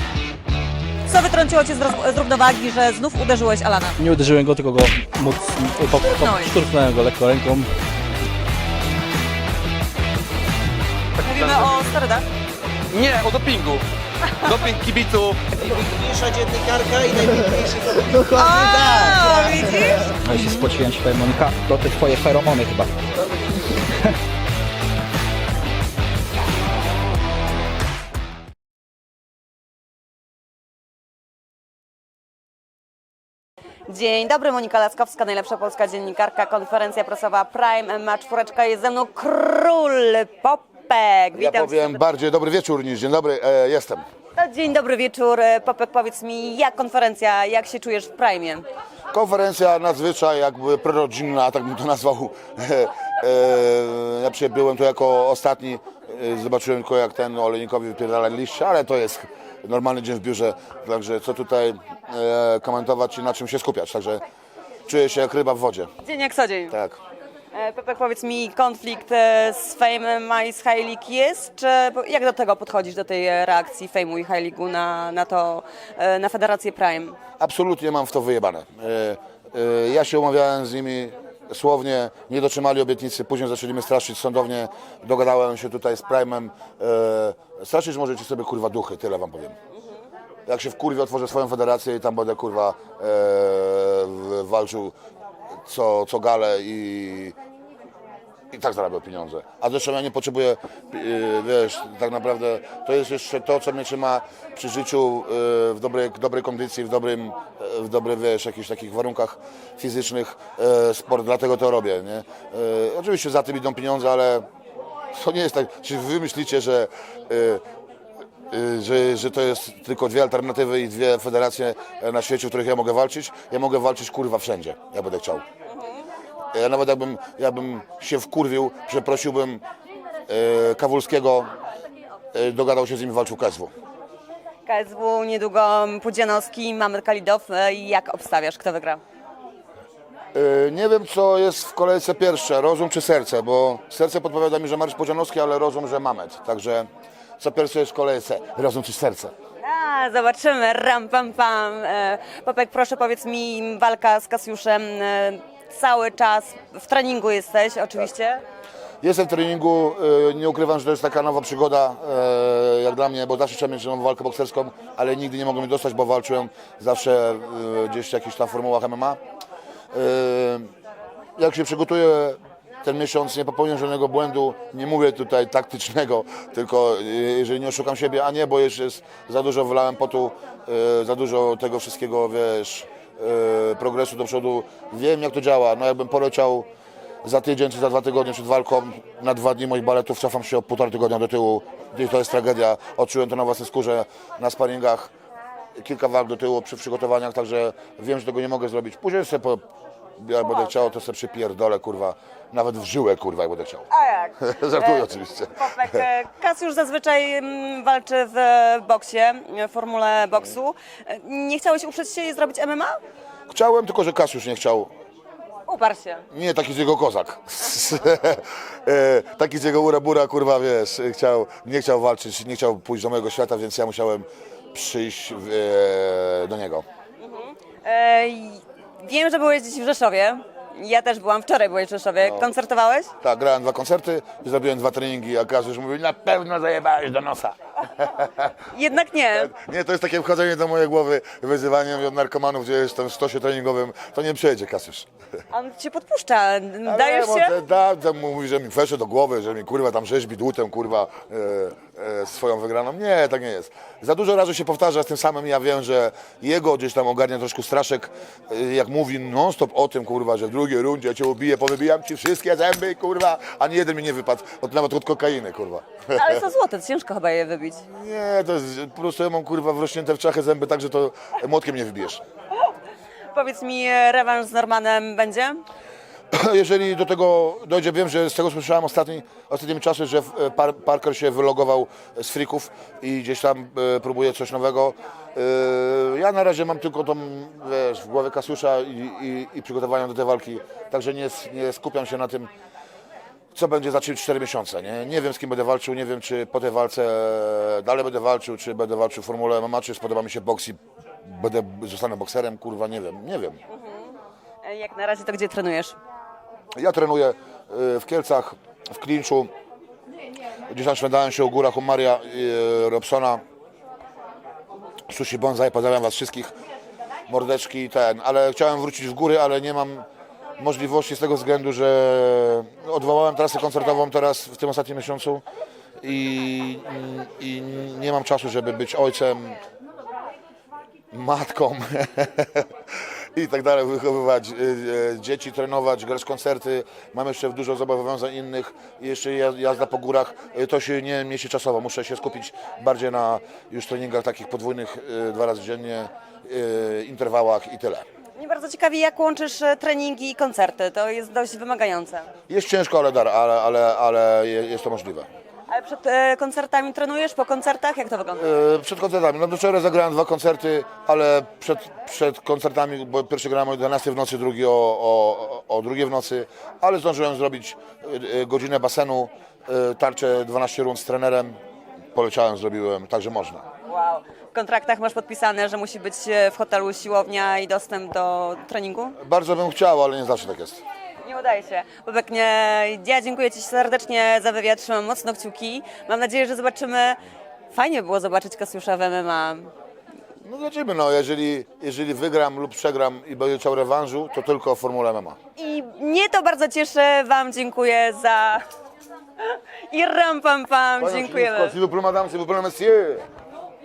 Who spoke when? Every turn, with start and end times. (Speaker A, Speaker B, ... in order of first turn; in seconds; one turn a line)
Speaker A: 1.1-4.0
Speaker B: 4.0-7.7
Speaker A: 6.2-6.6
Speaker A: 11.2-12.3
Speaker C: 11.2-11.7
Speaker C: 12.9-13.8
Speaker C: 14.4-15.5
Speaker D: 15.5-20.8
Speaker A: 18.2-20.2
Speaker E: 20.2-22.9
Speaker A: 33.9-42.0
Speaker F: 41.4-44.0
Speaker A: 44.4-48.6
Speaker F: 49.1-64.2
Speaker F: 64.9-65.9
Speaker A: 66.0-66.8
Speaker F: 66.7-67.0
Speaker A: 67.5-77.2
Speaker F: 77.4-89.5
Speaker F: 90.5-94.9
Speaker F: 95.7-97.3
Speaker F: 98.5-114.5
Speaker F: 115.1-117.6
Speaker F: 118.5-125.4
Speaker A: 125.7-126.0
Speaker F: 126.5-129.6
Speaker F: 130.3-131.5
Speaker F: 132.3-133.7
Speaker A: 134.7-139.0
Speaker F: 140.3-146.9
Speaker F: 147.4-149.3
Speaker A: 149.6-158.4
Speaker F: 159.0-169.2
Speaker F: 169.9-170.7
Speaker F: 171.4-186.7
Speaker F: 187.2-195.1
Speaker F: 195.8-199.6
Speaker F: 200.2-203.9
Speaker A: 200.4-200.8
Speaker A: 203.9-213.0
Speaker F: 204.4-206.0
Speaker F: 213.5-214.9
Speaker A: 215.7-216.2
Speaker F: 216.3-226.8
Speaker A: 227.2-233.1
Speaker F: 232.2-232.5
Speaker F: 233.2-238.5
Speaker A: 238.7-239.5
Speaker F: 239.3-245.1
Speaker A: 245.5-247.6
Speaker F: 246.9-266.4
Speaker A: 266.2-267.8
Speaker F: 267.9-272.2
Speaker A: 273.3-275.6
Speaker F: 276.3-292.5
Speaker F: 293.5-303.6
Speaker A: 303.7-305.9
Speaker F: 306.8-309.5
Speaker F: 310.7-313.4
Speaker F: 315.1-316.5
Speaker F: 317.3-320.1
Speaker F: 320.6-325.4
Speaker F: 326.0-329.6
Speaker F: 331.1-332.7
Speaker F: 333.4-348.1
Speaker A: 348.4-352.3
Speaker F: 352.5-355.3
Speaker A: 355.7-358.5
Speaker F: 358.4-371.6
Speaker F: 372.1-373.6
Speaker A: 373.9-379.2
Speaker F: 379.2-380.8
Speaker A: 381.2-387.2
Speaker A: 387.7-389.7
Speaker F: 390.4-395.4
Speaker A: 395.6-398.6
Speaker A: 399.4-401.8
Speaker F: 401.0-403.2